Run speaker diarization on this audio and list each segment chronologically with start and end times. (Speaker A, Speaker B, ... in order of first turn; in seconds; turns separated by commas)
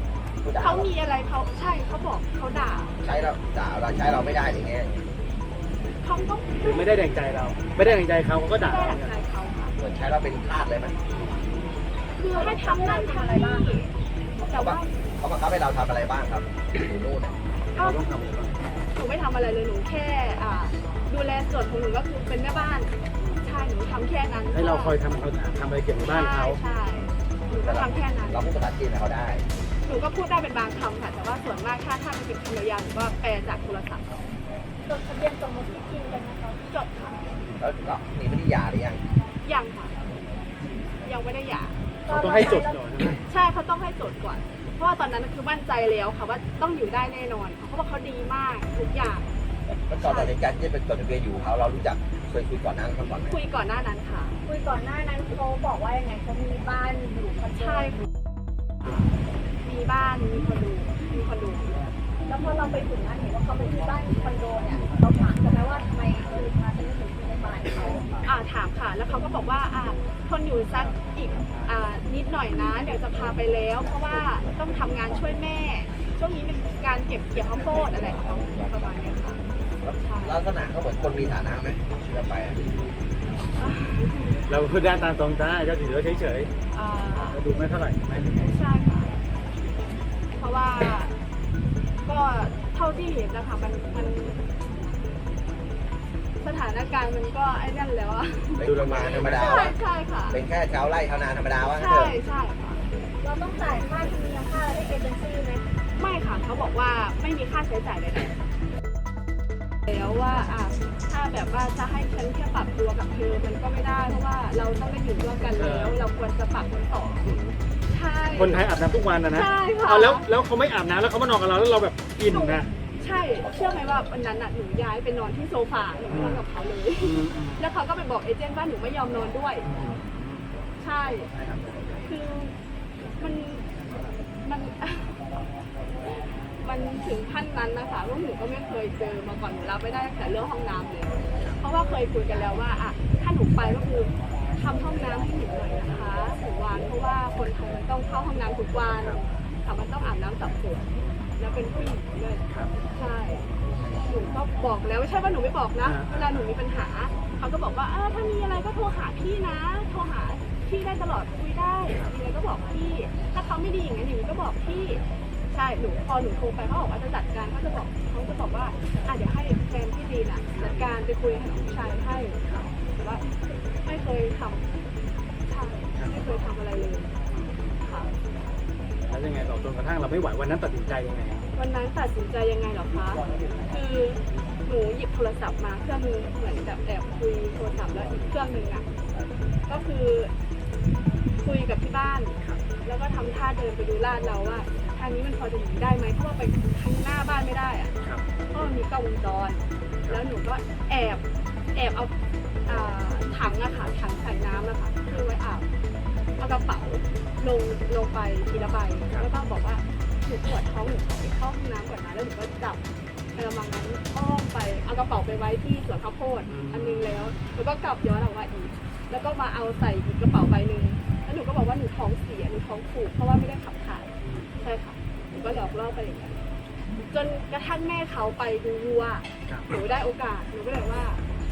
Speaker A: 0.4-0.9, Speaker B: 0.6-2.9, Speaker A: 3.0-5.0, Speaker B: 6.0-6.9, Speaker C: 6.6-9.1, Speaker B: 8.6-9.7, Speaker A: 9.8-10.9, Speaker B: 12.2-13.9, Speaker D: 12.3-13.8, Speaker B: 14.4-14.9, Speaker A: 14.5-17.4, Speaker B: 17.8-18.0, Speaker C: 17.8-18.6, Speaker B: 18.9-25.0, Speaker C: 24.5-26.6, Speaker B: 26.0-28.5, Speaker A: 27.6-29.4, Speaker B: 29.8-34.2, Speaker D: 34.9-36.6, Speaker B: 36.7-37.2, Speaker A: 37.5-39.0, Speaker B: 39.4-40.0, Speaker B: 41.0-41.8, Speaker D: 42.0-42.8, Speaker C: 42.1-43.2, Speaker B: 43.3-49.2, Speaker A: 49.7-53.4, Speaker B: 50.0-50.4, Speaker B: 53.3-54.4, Speaker D: 54.5-57.9, Speaker B: 57.6-58.0, Speaker B: 58.8-59.1, Speaker B: 59.6-61.8, Speaker D: 62.3-68.1, Speaker B: 68.2-79.4, Speaker A: 79.8-82.6, Speaker B: 80.0-80.4, Speaker B: 83.6-84.4, Speaker C: 84.5-86.5, Speaker B: 86.7-87.4, Speaker C: 87.3-88.3, Speaker B: 88.4-89.1, Speaker B: 90.4-91.1, Speaker B: 92.0-94.4, Speaker B: 96.4-98.7, Speaker A: 98.6-99.8, Speaker C: 98.6-99.7, Speaker B: 99.3-100.4, Speaker A: 100.3-102.2, Speaker B: 101.7-102.8, Speaker D: 103.2-105.6, Speaker B: 106.0-108.4, Speaker B: 109.9-117.2, Speaker C: 115.6-116.0, Speaker C: 117.2-117.5, Speaker B: 117.9-118.6, Speaker C: 118.3-122.7, Speaker B: 119.3-120.2, Speaker B: 122.3-129.7, Speaker C: 126.1-126.4, Speaker C: 127.0-127.6, Speaker C: 129.6-130.4, Speaker B: 130.8-131.3, Speaker C: 131.3-132.0, Speaker B: 132.0-132.5, Speaker B: 133.2-133.7, Speaker B: 134.4-135.2, Speaker B: 136.6-150.9, Speaker B: 151.4-152.4, Speaker B: 152.9-153.5, Speaker B: 154.1-172.4, Speaker C: 155.8-156.2, Speaker B: 172.9-173.2, Speaker B: 173.8-174.6, Speaker B: 175.5-177.1, Speaker C: 175.9-176.3, Speaker C: 177.3-177.7, Speaker B: 177.8-178.1, Speaker C: 179.1-181.4, Speaker B: 181.5-188.9, Speaker B: 189.7-190.3, Speaker B: 191.4-197.9, Speaker B: 198.5-201.2, Speaker B: 201.7-202.1, Speaker B: 202.7-205.7, Speaker B: 206.4-212.8, Speaker B: 213.3-226.4, Speaker C: 216.5-217.4, Speaker C: 224.2-224.5, Speaker B: 227.1-231.2